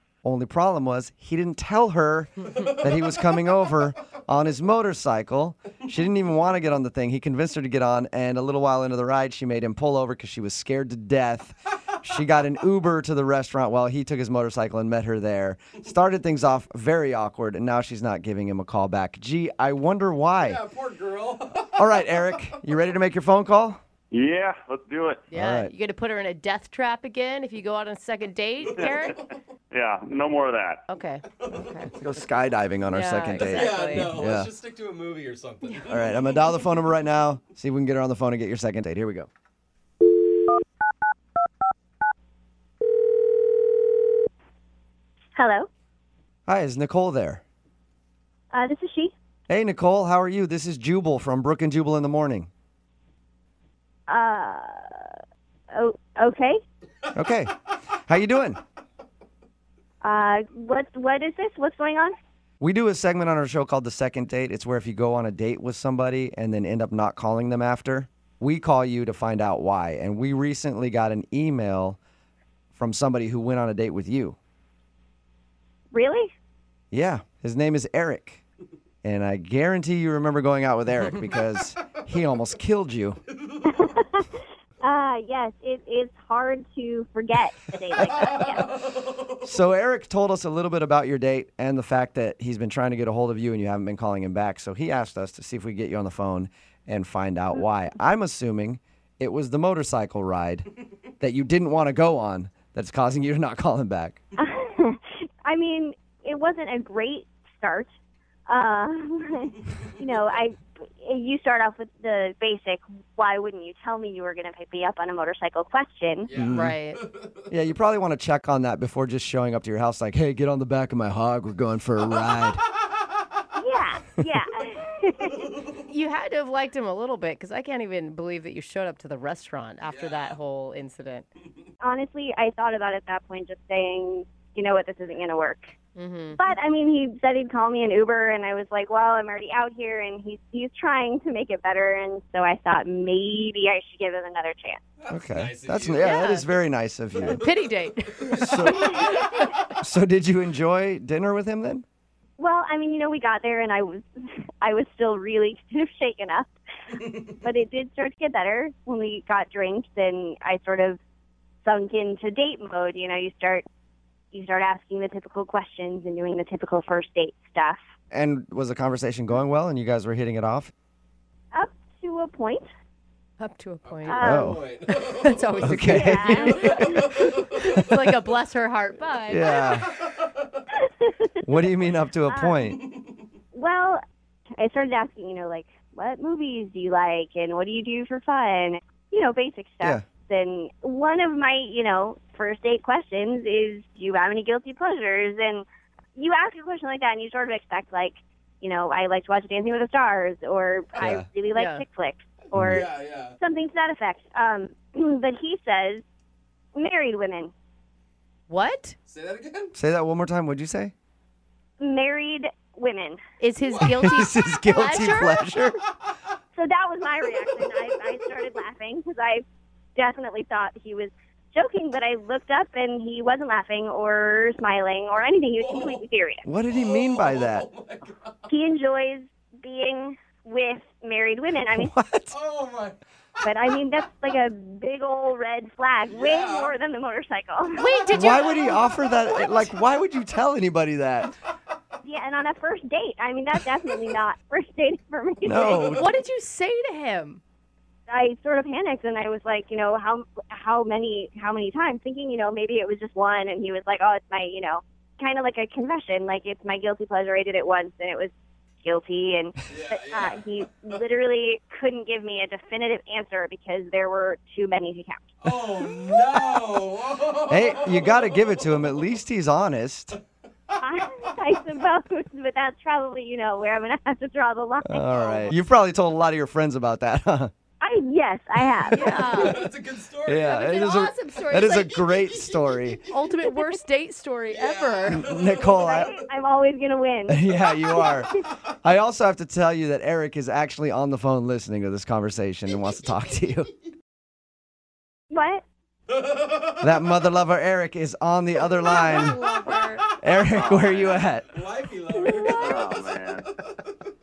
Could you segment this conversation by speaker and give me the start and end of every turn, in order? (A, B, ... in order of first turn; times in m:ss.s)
0:00.2-0:20.6 A
0:20.4-0:22.2 B
0:21.8-0:23.8 A
0:24.1-0:25.2 C
0:25.3-0:29.2 D
0:25.3-0:25.7 A
0:29.7-0:30.8 C
0:30.9-0:31.9 D
0:31.9-0:34.5 A
0:32.9-0:34.2 D
0:33.4-0:36.3 B
0:35.9-0:39.3 A
0:45.3-0:45.7 E
0:46.5-0:47.4 A
0:48.5-0:49.1 E
0:49.5-0:52.5 A
0:54.1-0:55.2 E
0:55.7-0:56.6 E
0:57.1-0:57.5 A
0:58.1-0:58.6 A
1:00.0-1:02.1 E
1:02.6-1:12.0 A
1:12.7-1:14.4 A
1:15.9-1:16.3 E
1:16.9-1:18.4 A
1:19.0-1:23.2 A
1:23.7-1:24.3 E
1:24.8-1:28.8 E
1:28.2-1:29.3 B
1:29.4-1:40.7 A
1:41.2-1:44.2 A
1:44.4-1:47.9 E
1:48.5-1:56.3 E
1:56.2-1:57.4 B
1:56.3-1:56.8 A
1:56.5-1:57.0 D
1:57.5-2:02.6 A
2:03.5-2:05.4 E
2:05.8-2:11.3 D
2:09.8-2:10.4 B
2:11.8-2:15.7 E
2:16.0-2:16.4 D
2:16.4-2:24.8 E
2:25.0-2:26.2 B
2:25.1-2:27.4 A
2:26.0-2:26.4 D
2:27.2-2:27.4 B
2:27.4-2:29.0 D
2:28.1-2:29.6 B
2:28.4-2:31.8 A
2:32.4-2:36.5 E
2:37.3-2:41.0 E
2:41.6-2:43.6 E
2:44.3-2:47.8 E
2:48.1-2:50.7 A
2:51.5-2:52.6 E
2:53.4-2:54.2 D
2:53.8-2:55.9 B
2:54.1-2:54.6 E
2:54.2-2:54.6 A
2:54.9-2:59.6 D
2:55.6-2:57.7 A
2:55.8-2:57.1 E
2:56.5-2:57.8 B
2:59.3-2:59.9 A
2:59.5-3:00.6 B
3:01.4-3:02.8 A
3:02.3-3:02.8 E
3:03.5-3:04.0 E
3:04.6-3:15.6 E
3:16.2-3:26.0 E
3:21.0-3:21.2 A
3:21.5-3:21.8 D
3:22.5-3:22.8 A
3:22.7-3:23.4 B
3:26.8-3:27.5 E
3:28.5-3:29.0 D
3:29.1-3:29.7 B
3:29.7-3:30.9 A
3:31.8-3:33.2 E
3:33.4-3:35.5 D
3:33.6-3:34.0 B
3:33.8-3:35.8 A
3:36.5-3:39.4 E
3:40.0-3:46.4 E
3:45.6-3:46.0 B
3:46.4-3:47.6 A
3:46.7-3:48.4 B
3:48.5-3:51.9 E
3:51.7-3:52.3 A
3:52.3-3:53.0 B
3:53.4-3:58.0 E
3:56.1-3:56.7 B
3:57.8-3:58.8 D
3:58.1-4:01.3 A
4:02.0-4:05.9 E
4:05.4-4:06.1 A
4:05.9-4:07.4 D
4:08.1-4:18.3 E
4:18.8-4:25.3 E
4:19.7-4:20.6 B
4:25.4-4:28.8 B
4:27.5-4:30.2 A
4:30.8-4:35.5 E
4:34.8-4:37.5 A
4:37.8-4:39.2 E
4:38.9-4:39.6 D
4:38.9-4:39.6 A
4:39.0-4:41.0 B
4:40.3-4:43.0 A
4:40.4-4:41.9 D
4:41.6-4:43.2 B
4:43.1-4:45.2 D
4:44.5-4:46.1 B
4:45.1-4:46.1 A
4:45.8-4:47.4 E
4:47.3-4:48.3 A
4:47.9-4:48.2 E
4:48.0-4:48.5 B
4:48.8-4:53.7 A
4:52.8-4:53.2 B
4:55.3-4:55.6 E
4:56.1-4:56.7 B
4:56.8-4:59.4 A
4:58.8-5:00.0 D
4:58.8-4:59.2 B
4:59.9-5:00.4 B
5:00.2-5:01.5 A
5:00.4-5:01.2 C
5:01.5-5:03.9 B
5:02.1-5:02.9 D
5:02.6-5:03.5 C